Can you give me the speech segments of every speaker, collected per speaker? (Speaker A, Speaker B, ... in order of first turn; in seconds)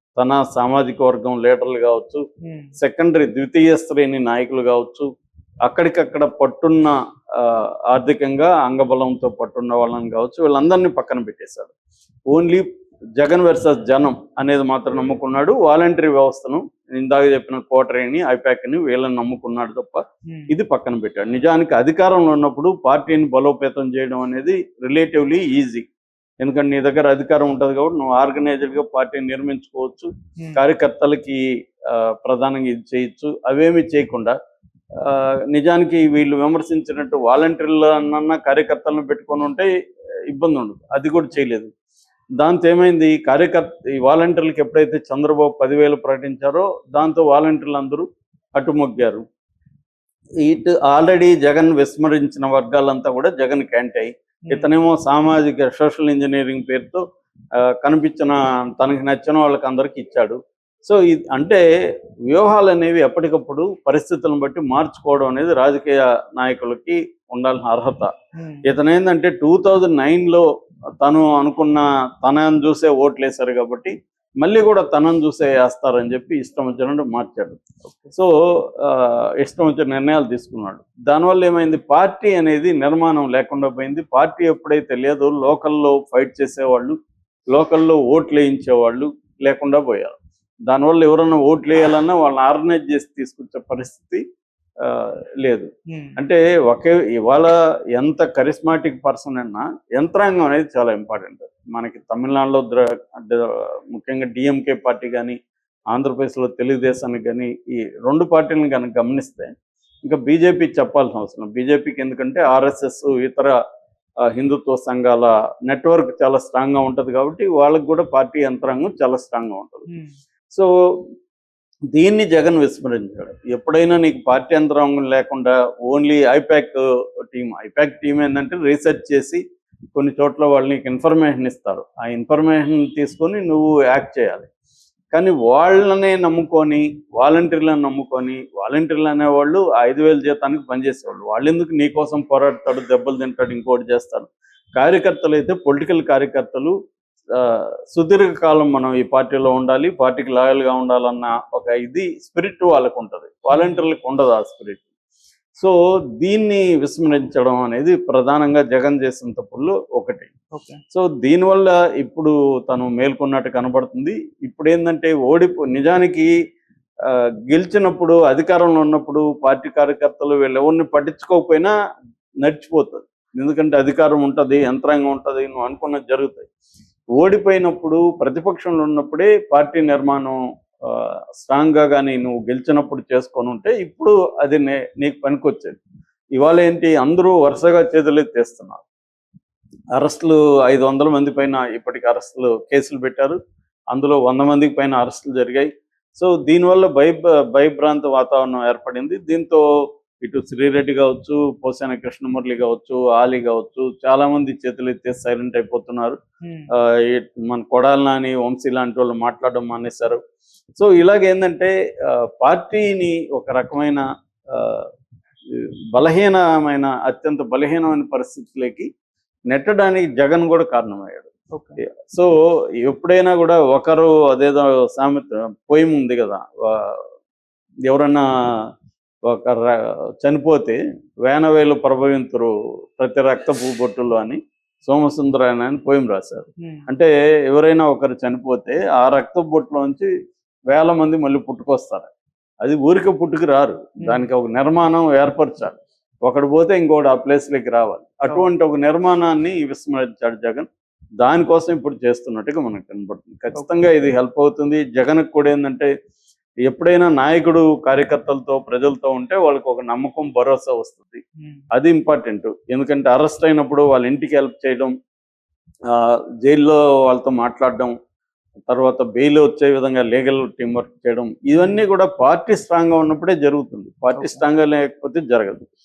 Speaker A: 0.2-2.2, 2.8-5.1, 5.7-11.7, 12.3-12.7, 13.2-25.9, 26.4-34.3, 35.0-39.7, 40.3-41.7, 42.4-48.0, 48.6-49.2, 50.4-57.0, 57.6-61.6, 62.3-68.1, 68.6-70.4, 71.0-77.6, 78.1-87.0, 87.5-90.2, 90.7-94.2, 94.8-105.3, 105.9-107.5, 108.0-109.5, 110.0-113.5, 114.3-119.9, 121.9-129.4, 129.9-134.5, 135.1-146.7, 147.3-154.8, 155.6-160.3, 160.9-166.3, 167.1-171.7, 172.4-176.5, 177.2-185.8, 186.3-188.8, 190.0-193.4, 193.9-199.6, 200.2-206.2, 207.0-210.2, 210.8-214.9, 215.5-218.9, 219.5-221.3, 222.1-227.0, 227.8-228.2, 229.3-240.1, 240.7-242.1, 242.6-250.7, 251.2-255.9, 256.6-261.2, 261.7-264.9, 265.9-267.9, 268.7-275.7
Speaker B: 2.4-2.7, 68.3-68.6, 77.8-78.1, 95.9-96.2, 119.9-120.1, 153.5-153.8, 160.5-160.8, 206.4-206.7, 221.5-221.8, 236.6-236.9, 244.0-244.2, 253.5-253.8, 271.6-271.8, 274.1-274.4